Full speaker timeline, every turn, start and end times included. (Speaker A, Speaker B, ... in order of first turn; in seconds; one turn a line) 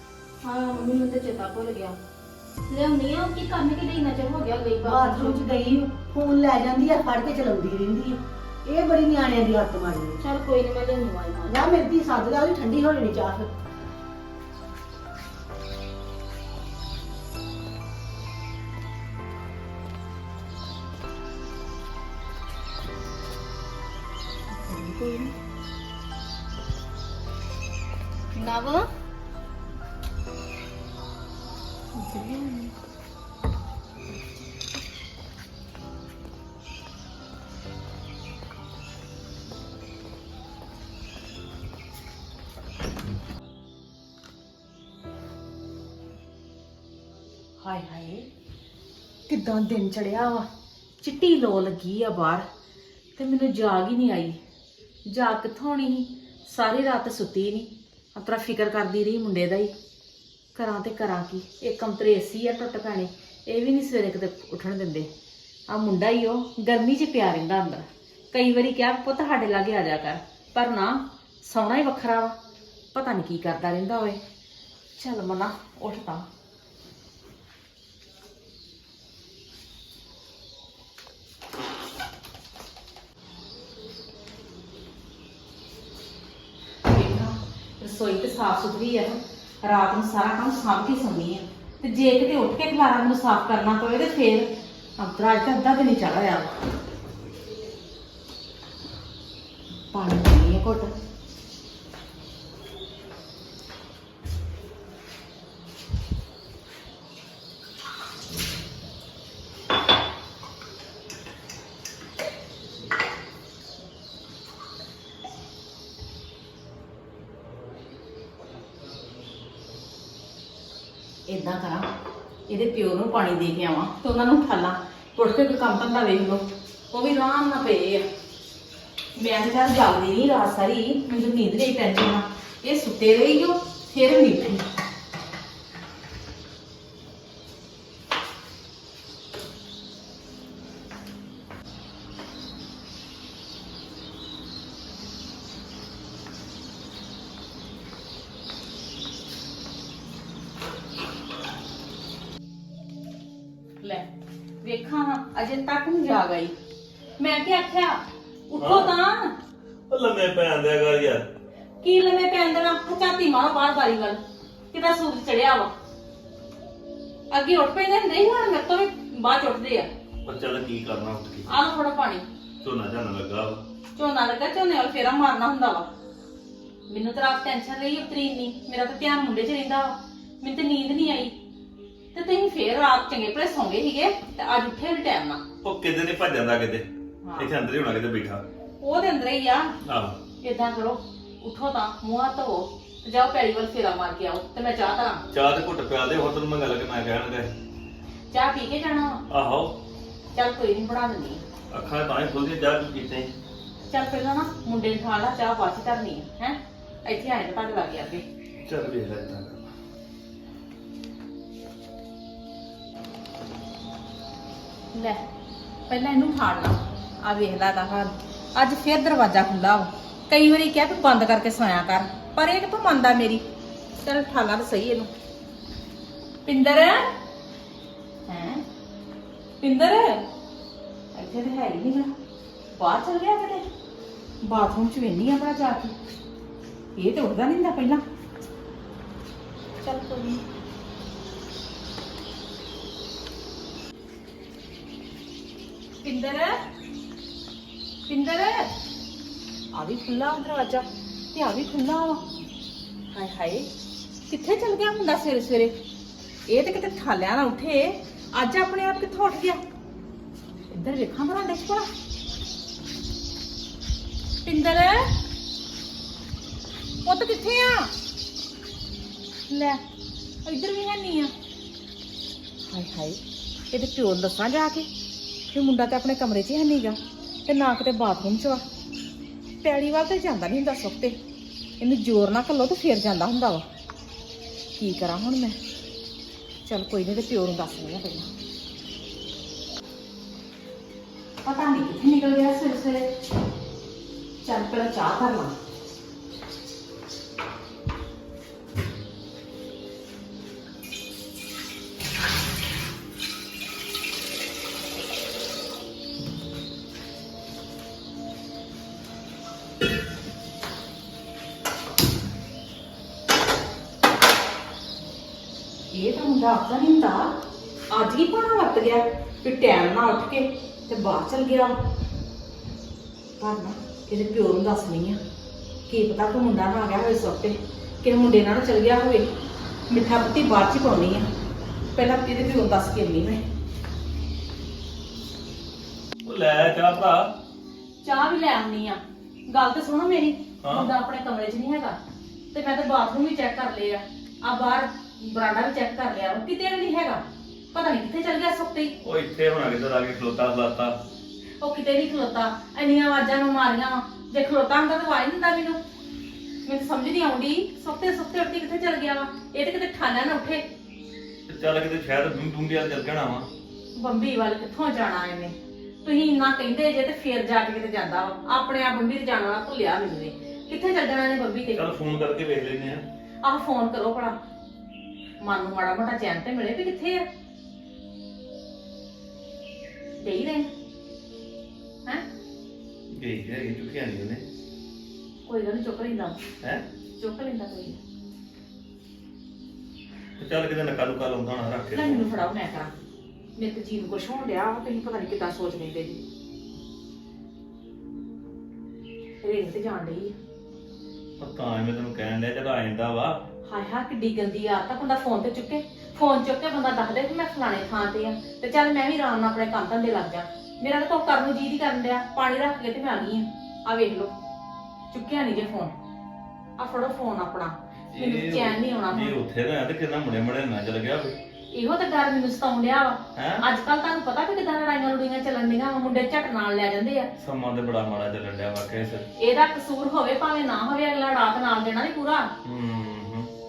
Speaker A: 0.4-2.0
Speaker A: 2.7-5.4
Speaker B: 4.8-10.2
Speaker A: 10.2-11.7
Speaker B: 11.5-13.5
Speaker A: 24.7-25.1
Speaker A: 28.4-28.8
Speaker C: 32.1-32.6
Speaker C: 47.6-48.3
Speaker C: 49.3-50.5
Speaker C: 51.0-52.5
Speaker C: 53.2-54.4
Speaker C: 55.1-59.7
Speaker C: 60.5-65.1
Speaker C: 65.7-72.4
Speaker C: 72.9-74.2
Speaker C: 75.0-76.3
Speaker C: 86.8-96.6
Speaker C: 99.9-100.9
Speaker C: 121.3-121.9
Speaker C: 122.5-128.1
Speaker C: 129.2-134.7
Speaker C: 153.8-154.1
Speaker C: 154.6-156.5
Speaker C: 157.2-159.3
Speaker D: 158.6-158.9
Speaker D: 159.9-161.3
Speaker C: 161.8-164.2
Speaker C: 164.7-165.7
Speaker C: 167.3-169.9
Speaker D: 170.2-171.5
Speaker C: 171.5-172.2
Speaker D: 172.6-173.6
Speaker C: 174.0-175.9
Speaker C: 176.9-181.4
Speaker C: 182.1-185.4
Speaker D: 185.6-188.4
Speaker C: 187.2-187.5
Speaker C: 188.8-189.7
Speaker D: 189.8-190.2
Speaker C: 190.4-195.2
Speaker D: 195.3-197.5
Speaker C: 198.3-199.2
Speaker D: 199.3-199.8
Speaker C: 200.3-201.4
Speaker D: 201.7-203.3
Speaker C: 203.9-208.2
Speaker D: 208.7-209.7
Speaker C: 214.9-215.2
Speaker C: 215.9-223.4
Speaker C: 224.0-225.1
Speaker C: 226.4-227.1
Speaker C: 228.3-228.6
Speaker C: 229.6-230.3
Speaker C: 231.1-232.1
Speaker C: 232.7-233.7
Speaker C: 234.4-235.9
Speaker C: 237.0-238.0
Speaker C: 239.8-240.4
Speaker C: 245.9-246.6
Speaker C: 248.1-248.7
Speaker C: 249.7-252.2
Speaker C: 253.1-253.7
Speaker C: 254.3-255.8
Speaker C: 256.5-259.6
Speaker C: 260.7-261.9
Speaker C: 264.4-265.2
Speaker C: 267.1-267.9
Speaker C: 269.5-269.8
Speaker C: 270.4-271.3
Speaker C: 272.7-273.2
Speaker C: 273.7-274.9
Speaker C: 275.5-278.6
Speaker C: 279.6-281.2
Speaker C: 281.8-283.7
Speaker C: 284.8-285.6
Speaker C: 286.6-288.3
Speaker C: 291.4-293.1
Speaker C: 294.4-295.5
Speaker C: 315.9-317.4
Speaker C: 317.9-321.8
Speaker C: 323.4-325.2
Speaker C: 325.9-329.3
Speaker C: 329.9-331.3
Speaker C: 331.9-333.4
Speaker D: 336.2-337.3
Speaker C: 338.0-342.0
Speaker D: 340.6-340.9
Speaker C: 342.5-348.9
Speaker D: 349.0-351.0
Speaker C: 351.6-355.8
Speaker C: 356.6-360.6
Speaker D: 361.5-363.5
Speaker C: 363.9-371.9
Speaker D: 371.8-373.1
Speaker C: 373.4-374.4
Speaker C: 375.4-377.3
Speaker C: 380.2-380.7
Speaker D: 383.2-384.4
Speaker C: 385.4-386.4
Speaker C: 387.2-388.0
Speaker D: 390.4-392.4
Speaker C: 391.9-392.9
Speaker C: 393.6-396.2
Speaker C: 399.4-400.3
Speaker D: 401.4-403.4
Speaker C: 403.7-414.3
Speaker C: 415.1-415.9
Speaker C: 416.8-419.4
Speaker D: 418.1-421.4
Speaker C: 421.7-427.3
Speaker D: 423.4-423.6
Speaker D: 427.4-429.2
Speaker C: 429.4-432.5
Speaker D: 432.6-433.5